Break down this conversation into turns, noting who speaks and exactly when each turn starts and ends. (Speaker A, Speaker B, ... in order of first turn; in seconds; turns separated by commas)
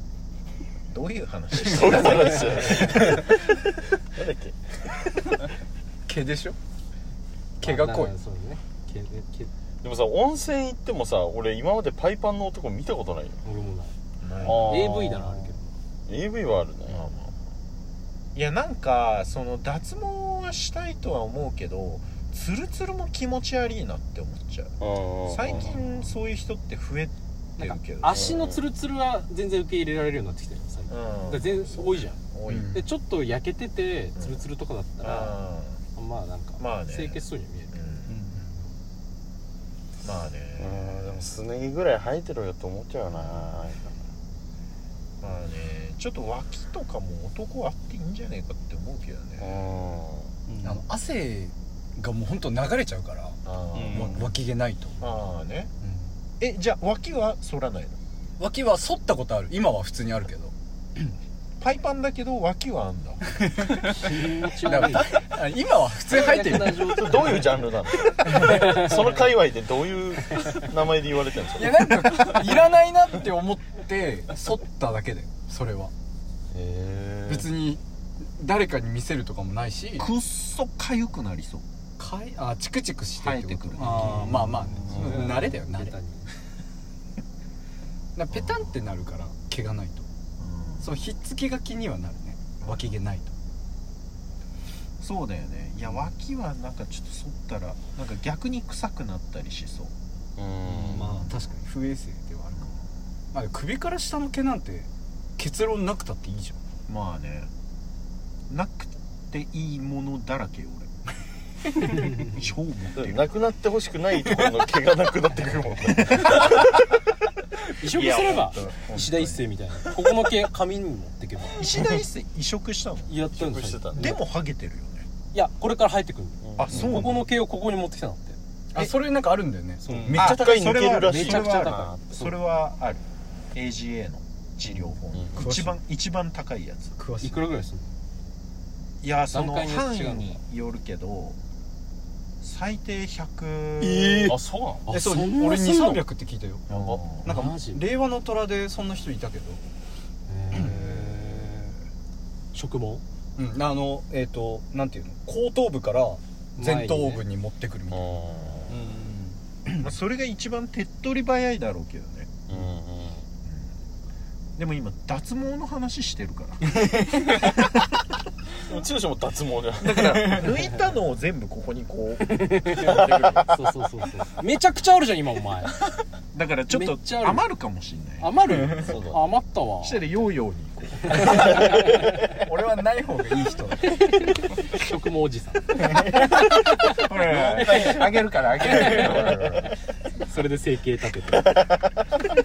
Speaker A: 0.9-3.2, Speaker B: 1.5-3.4, Speaker B: 4.1-4.8, Speaker C: 6.1-6.6, Speaker C: 7.6-8.1, Speaker D: 7.6-9.5, Speaker B: 9.8-13.4, Speaker D: 13.4-13.9, Speaker A: 14.2-14.8, Speaker B: 14.5-15.2, Speaker E: 14.5-15.5, Speaker D: 14.5-15.7, Speaker B: 16.1-17.0, Speaker A: 16.9-17.4, Speaker A: 18.3-28.4, Speaker B: 24.8-25.8, Speaker D: 27.6-32.2, Speaker B: 28.1-28.6, Speaker A: 30.9-32.7, Speaker C: 32.5-32.8, Speaker D: 32.7-35.4, Speaker A: 34.2-34.4, Speaker A: 35.0-35.8, Speaker D: 35.9-37.8, Speaker A: 36.6-37.2, Speaker A: 37.7-38.2, Speaker E: 38.1-38.4, Speaker A: 40.0-41.2, Speaker B: 40.6-43.8, Speaker A: 43.1-43.5, Speaker A: 45.2-49.5, Speaker B: 49.4-50.3, Speaker E: 50.5-50.8, Speaker C: 50.6-53.4, Speaker A: 53.4-54.3, Speaker E: 53.7-54.2, Speaker C: 53.9-55.0, Speaker A: 55.0-55.7, Speaker C: 55.8-56.1, Speaker A: 56.4-58.0, Speaker C: 58.4-61.1, Speaker A: 61.6-63.3, Speaker C: 63.3-67.3, Speaker D: 64.0-65.2, Speaker D: 66.1-67.7, Speaker B: 66.9-72.6, Speaker C: 68.2-68.8, Speaker D: 68.3-69.2, Speaker C: 71.5-75.9, Speaker B: 76.5-77.5, Speaker C: 77.3-80.1, Speaker A: 80.0-81.6, Speaker C: 82.0-85.9, Speaker A: 83.2-84.4, Speaker D: 83.8-86.3, Speaker E: 83.9-84.5, Speaker B: 84.9-85.3, Speaker C: 88.2-90.0, Speaker A: 88.3-88.8, Speaker A: 90.4-91.1, Speaker C: 90.8-93.3, Speaker A: 92.6-92.9, Speaker A: 95.0-99.9, Speaker B: 100.4-101.3, Speaker C: 100.8-102.7, Speaker A: 100.9-101.6, Speaker A: 102.5-102.8, Speaker C: 103.3-106.6, Speaker A: 106.9-107.5, Speaker A: 108.5-110.9, Speaker A: 112.1-113.3, Speaker B: 112.9-116.8, Speaker A: 116.1-116.6, Speaker D: 117.8-121.7, Speaker A: 117.8-119.1, Speaker B: 118.3-119.3, Speaker A: 121.6-123.1, Speaker D: 123.1-124.2, Speaker B: 123.3-124.2, Speaker A: 123.9-125.1, Speaker D: 125.3-128.4, Speaker B: 126.4-127.0, Speaker A: 126.6-127.2, Speaker C: 128.7-130.4, Speaker D: 129.8-132.4, Speaker B: 130.1-132.0, Speaker A: 130.1-136.9, Speaker B: 135.1-135.4, Speaker C: 135.3-135.8, Speaker C: 137.0-137.4, Speaker D: 137.2-137.9, Speaker A: 139.0-141.4, Speaker D: 139.3-140.4, Speaker A: 142.4-144.3, Speaker C: 143.8-144.4, Speaker E: 144.2-144.9, Speaker D: 144.8-146.0, Speaker C: 144.9-149.6, Speaker A: 146.7-147.3, Speaker D: 147.2-147.8, Speaker D: 150.3-151.6, Speaker A: 150.7-151.7, Speaker D: 152.5-153.0, Speaker C: 153.4-158.2, Speaker D: 156.6-157.2, Speaker B: 157.9-158.7, Speaker E: 158.7-159.3, Speaker A: 159.8-162.4, Speaker B: 162.5-163.2, Speaker A: 163.4-163.7, Speaker A: 164.6-167.8, Speaker C: 166.8-167.4, Speaker B: 168.6-170.5, Speaker A: 169.8-173.5, Speaker D: 172.2-175.8, Speaker A: 176.3-178.4, Speaker D: 176.7-177.4, Speaker D: 178.2-180.0, Speaker B: 178.8-179.3, Speaker A: 179.8-181.5, Speaker D: 181.0-182.1, Speaker C: 181.4-184.1, Speaker D: 183.9-191.6, Speaker A: 186.8-189.7, Speaker B: 188.8-189.4, Speaker B: 191.4-191.9